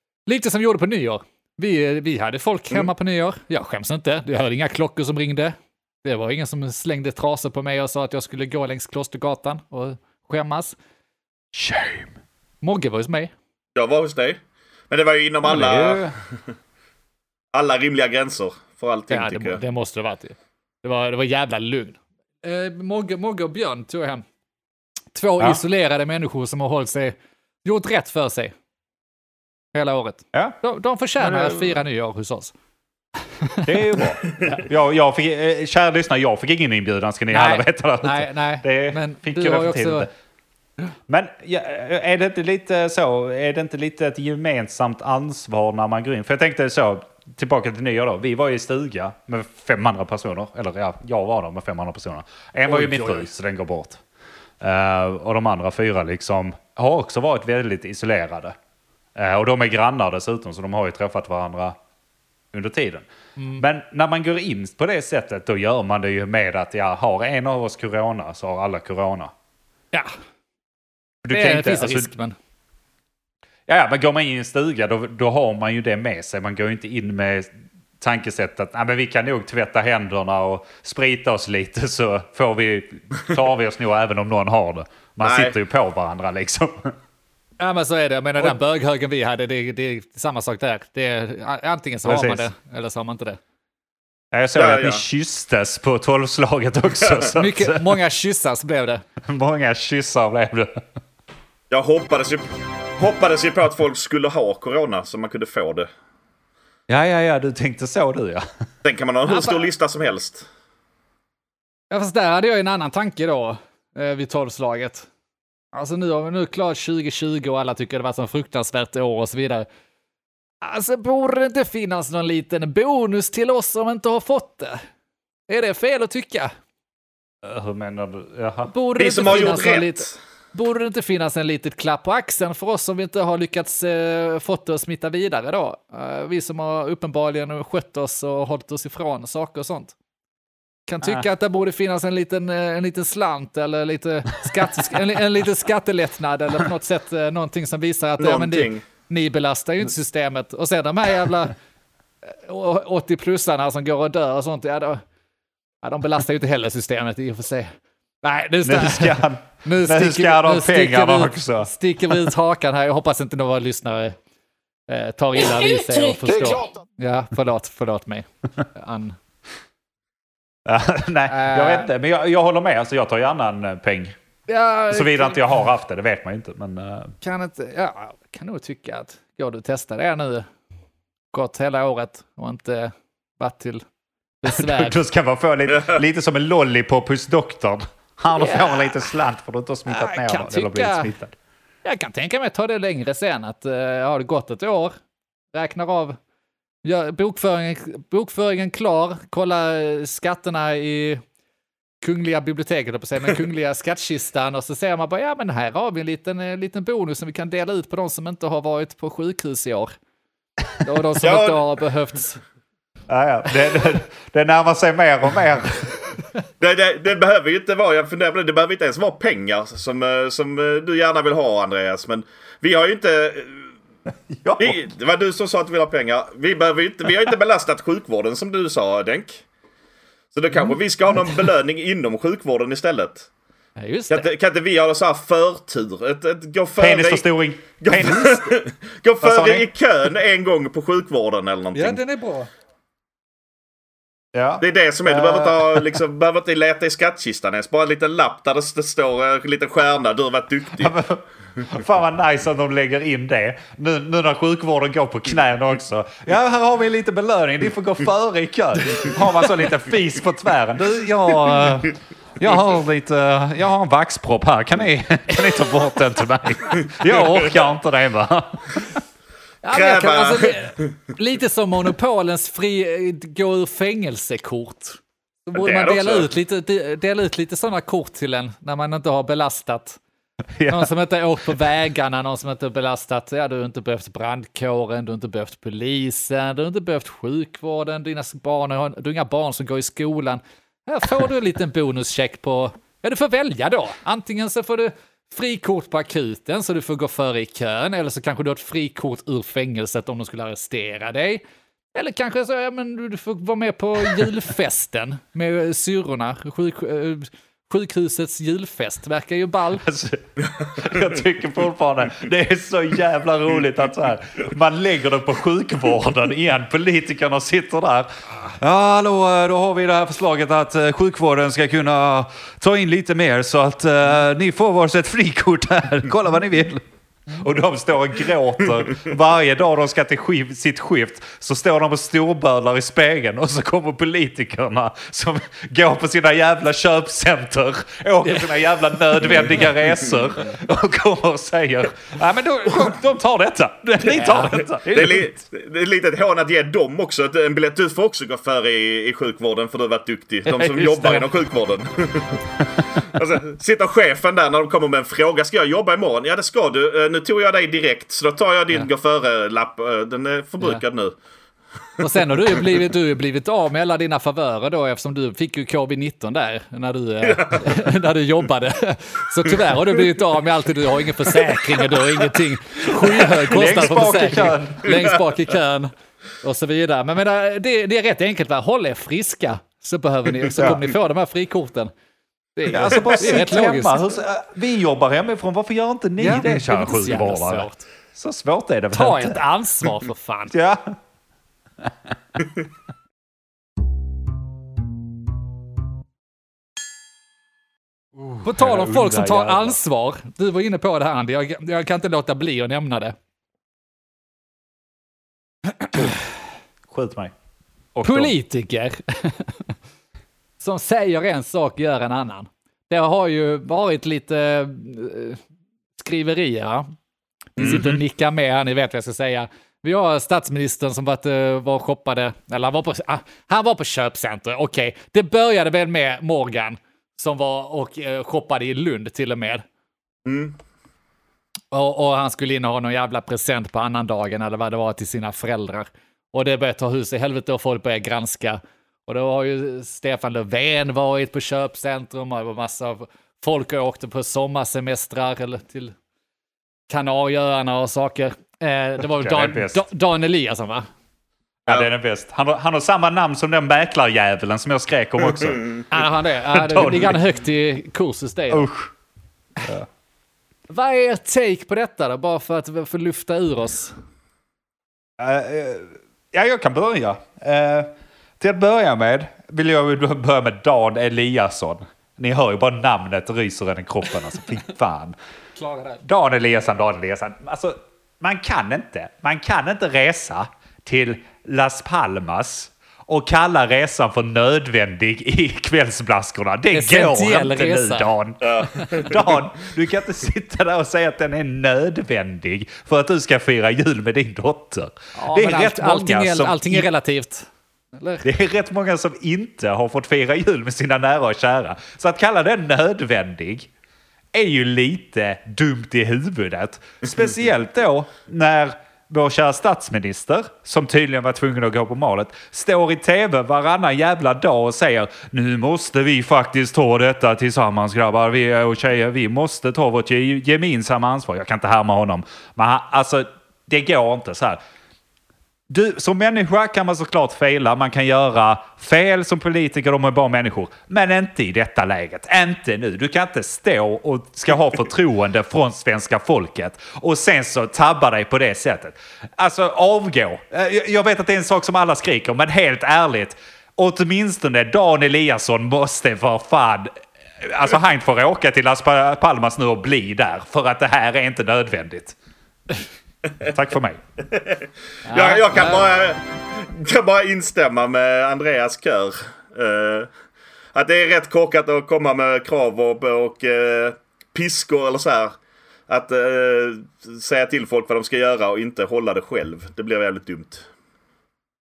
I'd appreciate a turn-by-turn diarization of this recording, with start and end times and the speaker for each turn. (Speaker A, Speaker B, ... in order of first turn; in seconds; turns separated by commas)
Speaker A: 0.2-10.7, Speaker B: 11.5-12.1, Speaker A: 12.6-13.3, Speaker C: 13.8-14.4, Speaker C: 14.9-16.1, Speaker B: 15.4-16.1, Speaker C: 17.5-19.6, Speaker A: 19.1-24.2, Speaker A: 25.1-28.5, Speaker A: 29.7-32.5, Speaker B: 31.2-31.8, Speaker A: 33.4-34.6, Speaker B: 33.6-40.1, Speaker A: 37.3-40.1, Speaker B: 41.1-54.0, Speaker A: 52.7-53.2, Speaker B: 54.6-58.5, Speaker B: 59.1-61.8, Speaker B: 62.5-63.1, Speaker A: 63.4-63.6, Speaker B: 63.6-69.3, Speaker B: 71.2-72.1, Speaker A: 71.3-72.3, Speaker B: 73.7-86.9, Speaker C: 85.2-85.5, Speaker A: 87.6-93.4, Speaker B: 92.0-92.5, Speaker B: 94.3-97.9, Speaker C: 94.5-95.0, Speaker A: 97.3-99.0, Speaker B: 99.2-100.8, Speaker C: 101.7-105.9, Speaker B: 106.9-108.5, Speaker C: 108.8-110.5, Speaker A: 109.3-109.6, Speaker A: 111.9-115.1, Speaker A: 115.7-119.7, Speaker A: 120.6-124.8, Speaker A: 125.5-126.5, Speaker B: 127.4-128.7, Speaker A: 128.7-139.9, Speaker C: 129.0-130.1, Speaker A: 140.9-151.5, Speaker C: 148.2-148.8, Speaker A: 152.2-155.0, Speaker A: 155.8-164.2, Speaker B: 158.6-161.7, Speaker A: 164.9-169.2, Speaker B: 166.0-166.7, Speaker B: 170.7-174.2, Speaker A: 171.3-171.9, Speaker A: 174.5-175.4, Speaker B: 174.9-177.1, Speaker A: 177.2-180.4, Speaker A: 181.3-183.8, Speaker A: 184.4-185.0, Speaker B: 184.5-191.3, Speaker A: 188.3-188.9, Speaker A: 189.9-191.1, Speaker A: 191.8-194.9, Speaker A: 195.5-196.2, Speaker A: 196.8-201.2, Speaker A: 202.0-209.9, Speaker A: 210.8-212.4, Speaker C: 211.2-211.6, Speaker B: 213.1-216.2, Speaker C: 216.6-223.7, Speaker B: 224.3-224.8, Speaker C: 224.6-229.4, Speaker C: 230.3-233.3, Speaker A: 233.8-234.3, Speaker C: 234.1-237.2, Speaker B: 236.8-238.5, Speaker C: 237.8-242.0, Speaker B: 239.2-239.7, Speaker A: 241.7-242.5, Speaker B: 244.3-245.9, Speaker C: 244.6-251.0, Speaker B: 250.8-269.0, Speaker A: 269.6-280.0, Speaker C: 269.7-270.9, Speaker C: 275.5-276.3, Speaker B: 280.6-280.9, Speaker A: 280.7-301.4, Speaker A: 301.9-309.8, Speaker B: 309.8-345.4, Speaker A: 344.0-344.6, Speaker C: 344.8-352.4, Speaker B: 350.5-351.3, Speaker C: 352.9-361.1, Speaker A: 362.0-381.9, Speaker C: 367.2-367.7, Speaker B: 373.2-375.0, Speaker B: 380.6-380.8, Speaker A: 382.6-384.1, Speaker B: 382.7-389.4, Speaker A: 386.2-387.8, Speaker A: 388.9-390.5, Speaker B: 390.5-391.0, Speaker B: 398.2-399.8, Speaker A: 398.4-403.1, Speaker B: 405.9-406.2, Speaker B: 406.9-407.3, Speaker B: 407.9-408.3, Speaker A: 408.0-409.7, Speaker A: 410.6-415.4, Speaker A: 416.0-416.9, Speaker A: 417.6-429.6, Speaker B: 417.6-418.0, Speaker C: 430.2-430.6, Speaker A: 431.7-445.9, Speaker A: 446.9-450.9, Speaker B: 449.1-449.8, Speaker B: 451.6-457.2, Speaker A: 455.9-458.7, Speaker B: 458.5-458.9, Speaker A: 460.7-463.9, Speaker B: 465.2-475.1, Speaker A: 475.6-476.0, Speaker B: 476.0-496.9, Speaker A: 486.7-488.1, Speaker C: 488.4-489.2, Speaker A: 488.8-489.0, Speaker A: 495.1-497.4, Speaker A: 498.0-498.2, Speaker B: 498.2-503.7, Speaker B: 504.3-524.6, Speaker B: 525.7-552.1, Speaker B: 553.4-554.0, Speaker C: 554.3-554.6, Speaker A: 555.1-555.9, Speaker C: 555.1-560.1, Speaker C: 560.7-565.3, Speaker C: 565.9-570.7